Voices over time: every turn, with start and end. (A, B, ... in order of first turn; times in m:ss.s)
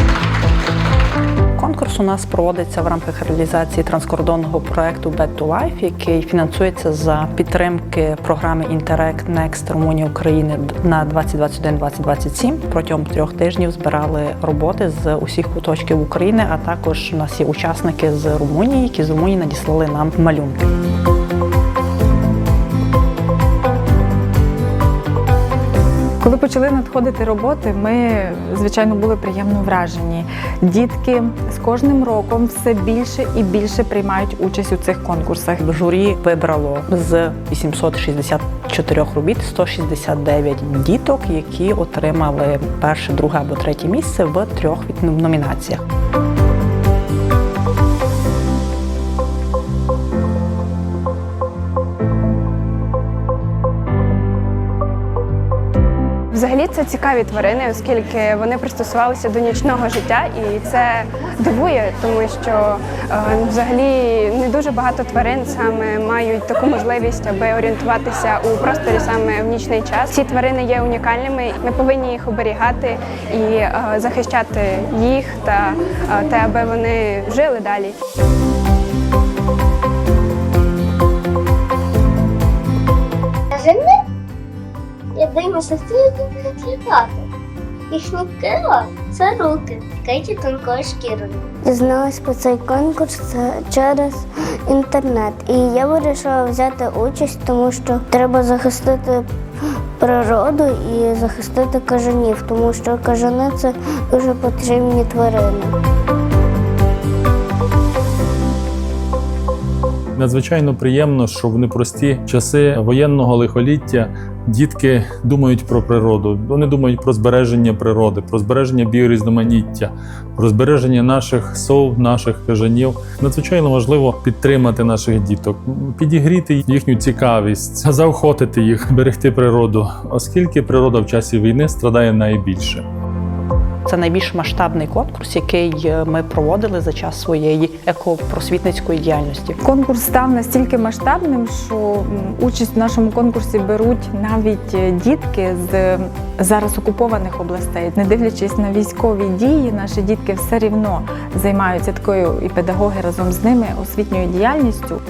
0:01.6-0:20.7 A
0:26.2-0:35.6 B
0:35.6-0:45.8 A
0:56.3-1:17.9 C
1:23.5-1:23.9 D
1:25.1-1:27.2 D
1:27.9-1:31.4 D
1:31.6-1:39.2 E
1:40.0-1:45.7 E
1:50.2-2:12.8 F
2:13.9-2:19.6 A
2:19.6-2:35.0 B